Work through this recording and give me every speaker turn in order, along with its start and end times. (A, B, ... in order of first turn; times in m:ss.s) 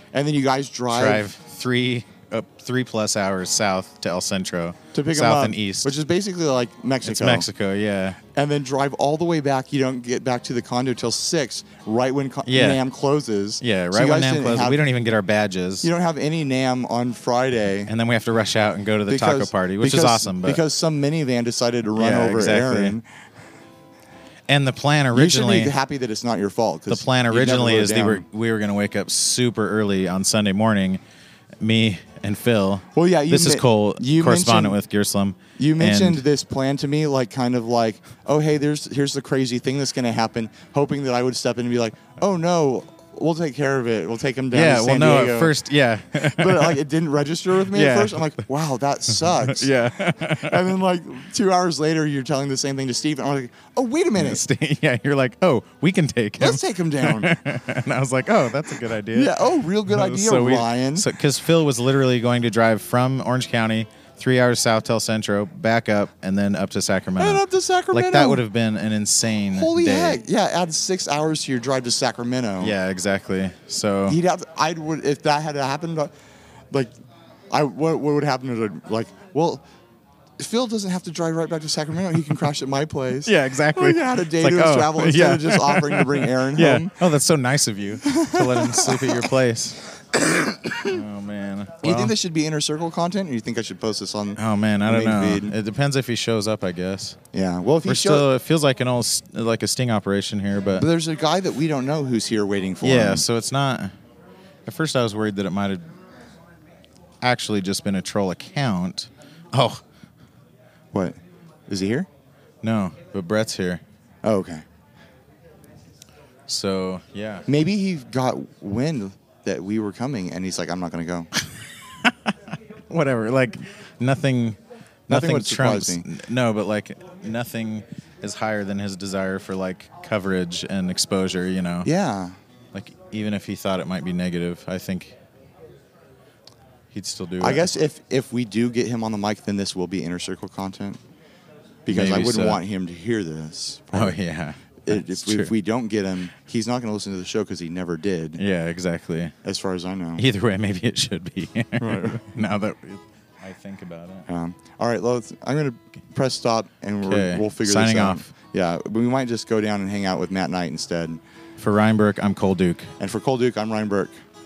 0:00.1-0:01.3 A
0:00.9-0:05.9 B
0:04.9-0:07.5 A
0:07.0-0:08.2 B
0:08.3-0:14.8 A
0:12.4-0:12.8 B
0:13.6-0:15.9 B
0:15.8-0:17.9 A
0:17.9-0:20.6 B
0:19.1-0:23.1 A
0:21.9-0:23.0 B
0:24.5-0:25.7 B
0:25.1-0:28.2 A
0:26.9-0:31.0 B
0:31.6-0:36.2 B
0:32.9-0:34.8 A
0:35.6-0:45.6 A
0:44.5-0:46.8 B
0:46.2-0:54.4 A
0:47.6-0:48.4 B
0:49.1-0:50.7 B
0:54.2-1:10.2 B
0:56.4-0:57.3 A
0:59.1-1:01.1 A
1:07.2-1:08.4 A
1:09.5-1:12.8 A
1:12.6-1:14.2 B
1:14.1-1:16.1 A
1:17.5-1:19.6 A
1:20.4-1:27.0 A
1:23.2-1:29.9 B
1:28.0-1:29.3 A
1:30.1-1:31.0 A
1:30.8-1:32.1 B
1:31.8-1:35.5 A
1:34.4-1:37.2 B
1:37.3-1:38.2 A
1:37.8-1:40.9 B
1:40.7-1:43.3 A
1:42.8-1:43.9 B
1:44.6-1:45.8 B
1:47.2-1:49.8 B
1:51.7-1:52.1 A
1:52.6-1:53.8 B
1:54.2-1:54.6 A
1:56.5-1:57.5 B
1:57.5-2:01.3 A
2:01.4-2:11.9 B
2:05.1-2:06.1 A
2:11.8-2:12.3 A
2:12.7-2:15.2 B
2:16.9-2:17.7 B
2:17.4-2:21.0 A
2:21.8-2:24.2 A
2:21.9-2:22.6 B
2:23.9-2:25.5 B
2:24.8-2:28.4 A
2:28.4-2:29.3 B
2:29.4-2:30.2 A
2:30.2-2:34.3 B
2:31.8-2:32.2 A
2:34.3-2:41.2 A
2:37.0-2:38.3 B
2:41.6-2:42.9 B
2:43.0-2:44.1 A